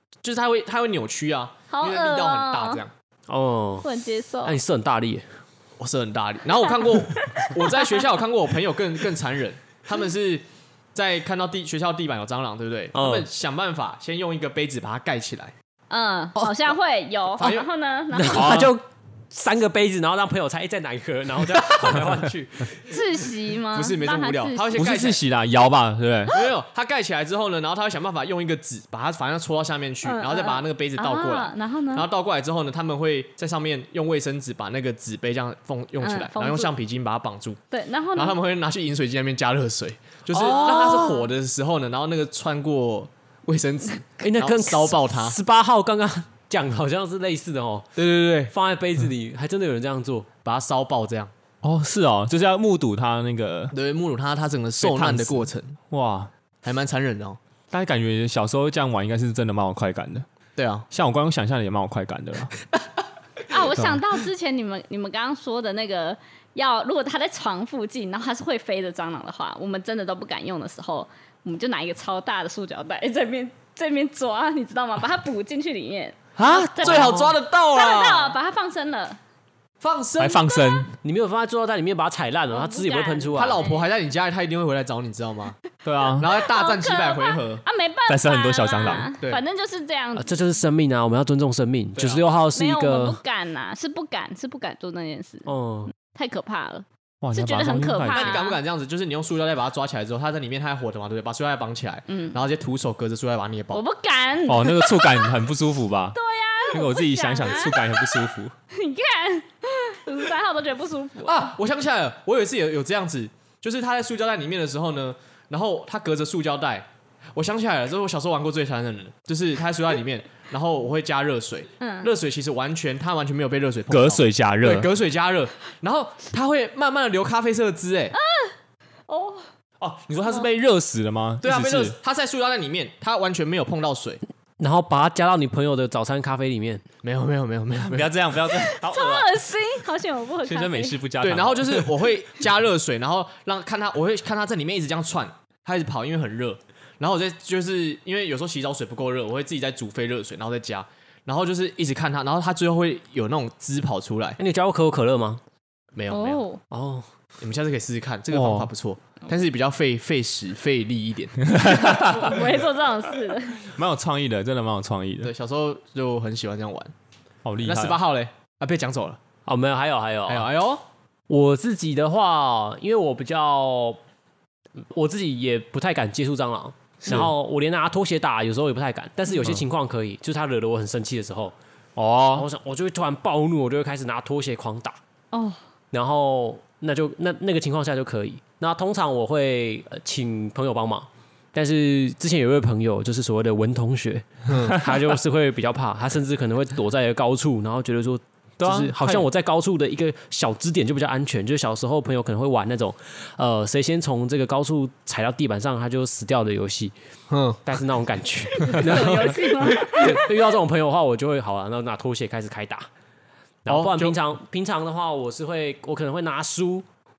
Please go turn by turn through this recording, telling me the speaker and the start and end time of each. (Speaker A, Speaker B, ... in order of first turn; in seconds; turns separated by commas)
Speaker A: 0.2-2.9, Speaker B: 1.7-2.8, Speaker C: 3.3-3.9, Speaker B: 3.8-4.6, Speaker C: 4.4-5.3, Speaker A: 5.8-15.5, Speaker B: 6.7-7.9, Speaker C: 12.9-13.3, Speaker B: 15.9-18.7, Speaker A: 17.4-17.7, Speaker C: 18.1-23.0, Speaker D: 18.3-18.8, Speaker B: 22.9-24.8, Speaker A: 23.7-25.2, Speaker D: 24.8-26.4, Speaker A: 26.3-37.6, Speaker B: 30.0-32.1, Speaker B: 36.0-36.7, Speaker B: 37.7-38.4, Speaker A: 38.1-45.4, Speaker C: 40.3-41.2, Speaker B: 40.4-41.3, Speaker C: 44.2-50.3, Speaker A: 48.0-48.5, Speaker A: 50.5-51.3, Speaker D: 51.6-53.7, Speaker A: 53.7-55.8, Speaker D: 54.8-56.3, Speaker A: 56.6-57.4, Speaker D: 57.7-60.3, Speaker A: 60.6-60.9, Speaker D: 60.9-62.5, Speaker B: 63.5-79.2, Speaker D: 76.4-77.4, Speaker A: 76.8-78.4, Speaker A: 79.8-80.7, Speaker D: 80.2-80.9, Speaker C: 81.0-83.7, Speaker B: 82.5-83.9, Speaker A: 83.3-85.6, Speaker D: 85.8-86.3, Speaker A: 86.2-87.6, Speaker B: 86.3-90.3, Speaker D: 88.1-89.1, Speaker C: 90.2-93.2, Speaker A: 92.0-92.3, Speaker B: 92.5-98.6, Speaker C: 95.5-95.9, Speaker D: 97.2-98.4, Speaker A: 98.0-103.8, Speaker B: 102.1-102.4, Speaker B: 103.7-105.5, Speaker D: 104.5-106.2, Speaker B: 106.1-107.9, Speaker D: 106.7-108.5, Speaker B: 108.7-111.5, Speaker A: 111.2-128.2, Speaker B: 121.8-122.1, Speaker D: 123.9-124.9, Speaker B: 128.1-128.6, Speaker B: 129.1-129.5, Speaker D: 129.8-132.0, Speaker A: 131.4-134.2, Speaker C: 134.6-136.8, Speaker A: 137.0-138.1, Speaker D: 137.9-139.3, Speaker B: 138.5-141.0, Speaker D: 140.4-142.0, Speaker A: 141.2-154.4, Speaker C: 154.4-155.4, Speaker A: 155.9-156.4, Speaker B: 156.1-156.6, Speaker C: 156.7-157.1, Speaker A: 157.4-161.4, Speaker D: 158.3-158.7, Speaker D: 161.5-162.4, Speaker B: 161.8-163.7, Speaker D: 163.7-165.3, Speaker A: 165.2-166.9, Speaker D: 167.4-168.0, Speaker A: 167.6-169.2, Speaker C: 169.5-170.5, Speaker A: 170.3-170.8, Speaker C: 171.3-174.0, Speaker C: 174.8-181.6, Speaker D: 177.0-177.3, Speaker D: 182.0-182.5, Speaker C: 182.3-185.0, Speaker B: 185.3-185.6, Speaker C: 185.9-206.9, Speaker A: 194.5-194.8, Speaker D: 198.6-199.3, Speaker A: 207.3-207.6, Speaker C: 207.7-212.9, Speaker B: 208.6-210.3, Speaker A: 208.8-210.2, Speaker C: 213.7-216.9, Speaker A: 213.7-214.2